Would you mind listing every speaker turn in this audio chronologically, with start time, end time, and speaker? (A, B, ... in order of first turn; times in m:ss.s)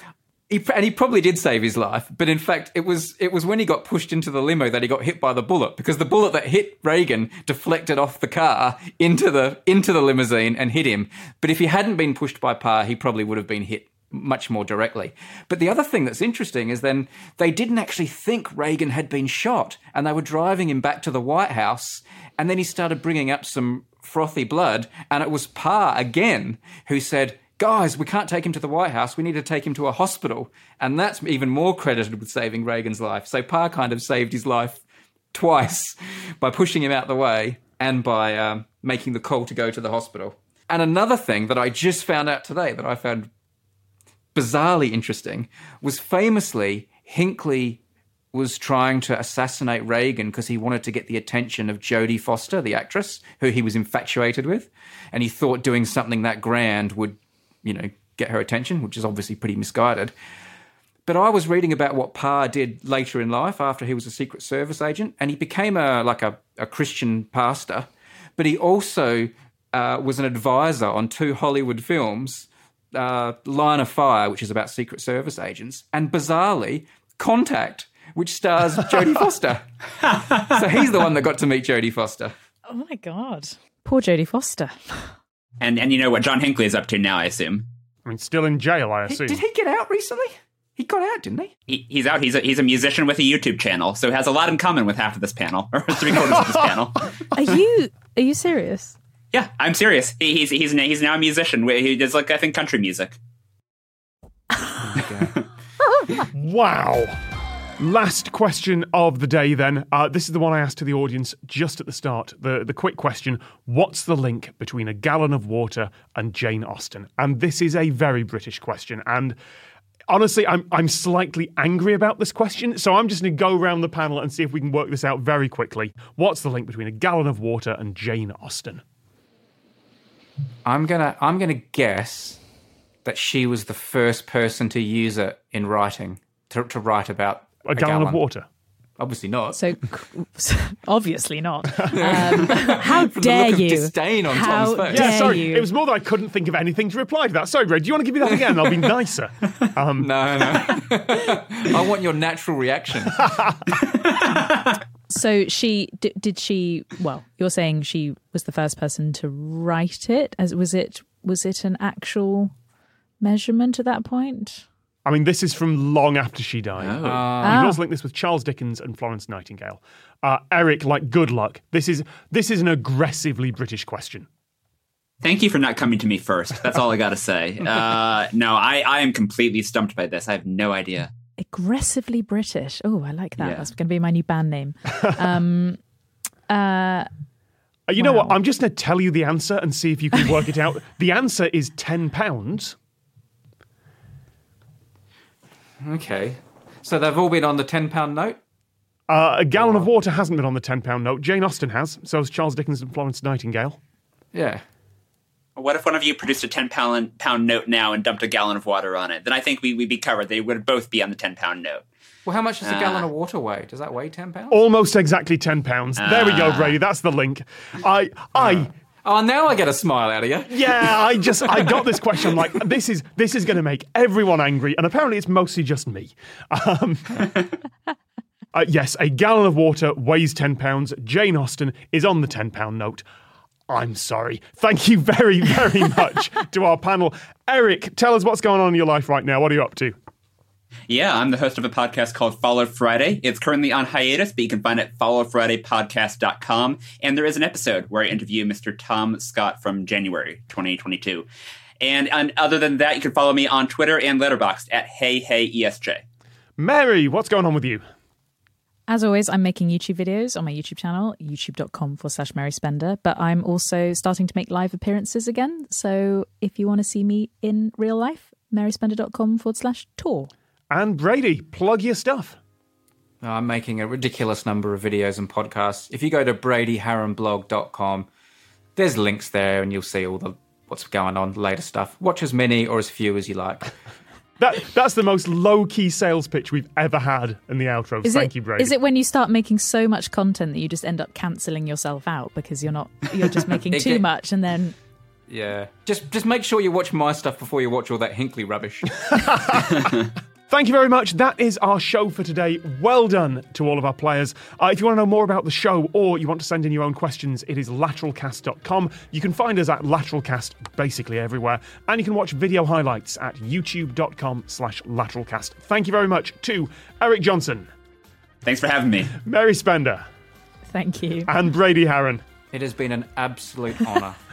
0:00.5-0:43.3 A
0:44.3-0:47.8 A
0:48.3-1:00.1 A
1:01.0-1:22.3 A
1:20.0-1:20.6 B
1:22.7-1:25.1 C
1:25.6-1:27.6 B
1:28.0-1:29.4 D
1:29.1-1:31.5 A
1:31.7-1:37.5 B
1:37.3-1:38.9 C
1:39.3-1:43.2 B
1:44.8-1:45.3 A
1:46.3-1:47.2 D
1:47.8-1:59.4 D
2:00.1-2:08.8 D
2:10.6-2:12.4 A
2:13.0-2:18.2 A
2:17.6-2:18.4 D
2:19.0-2:19.6 A
2:19.5-2:25.7 C
2:21.9-2:25.4 A
2:24.9-2:30.1 D
2:28.4-2:28.8 A
2:30.0-2:33.4 A
2:33.8-2:34.8 B
2:35.1-2:42.5 C
2:43.2-2:44.6 C
2:45.0-2:54.3 D
2:46.8-2:47.3 B
2:47.0-2:47.7 A
2:47.4-2:47.8 C
2:55.2-3:01.1 B
3:01.4-3:05.8 C
3:03.4-3:03.7 B
3:06.5-3:07.1 C
3:07.9-3:12.8 D
3:08.0-3:08.3 C
3:15.8-3:18.4 A
3:19.1-3:23.8 D
3:19.6-3:19.9 A
3:24.3-3:24.6 A
3:25.6-3:31.8 B
3:32.2-3:34.6 A
3:32.6-3:33.1 B
3:34.5-3:38.7 D
3:36.0-3:36.8 B
3:38.4-3:41.8 A
3:40.5-3:47.3 D
3:48.5-3:53.0 D
3:53.7-4:00.0 D
4:00.9-4:11.2 B
4:11.8-4:16.0 B
4:16.6-4:17.8 D
4:18.9-4:30.3 C
4:30.7-4:32.4 D
4:33.2-4:38.1 A
4:38.8-4:43.7 A
4:44.4-4:48.7 D
4:48.0-4:54.7 C
4:53.6-4:54.0 A
4:55.3-4:59.5 A
4:59.1-5:00.0 D
5:00.5-5:17.7 D
5:18.4-5:19.2 B
5:19.2-5:20.0 D
5:20.7-5:21.3 C
5:21.2-5:22.2 D
5:22.5-5:24.2 A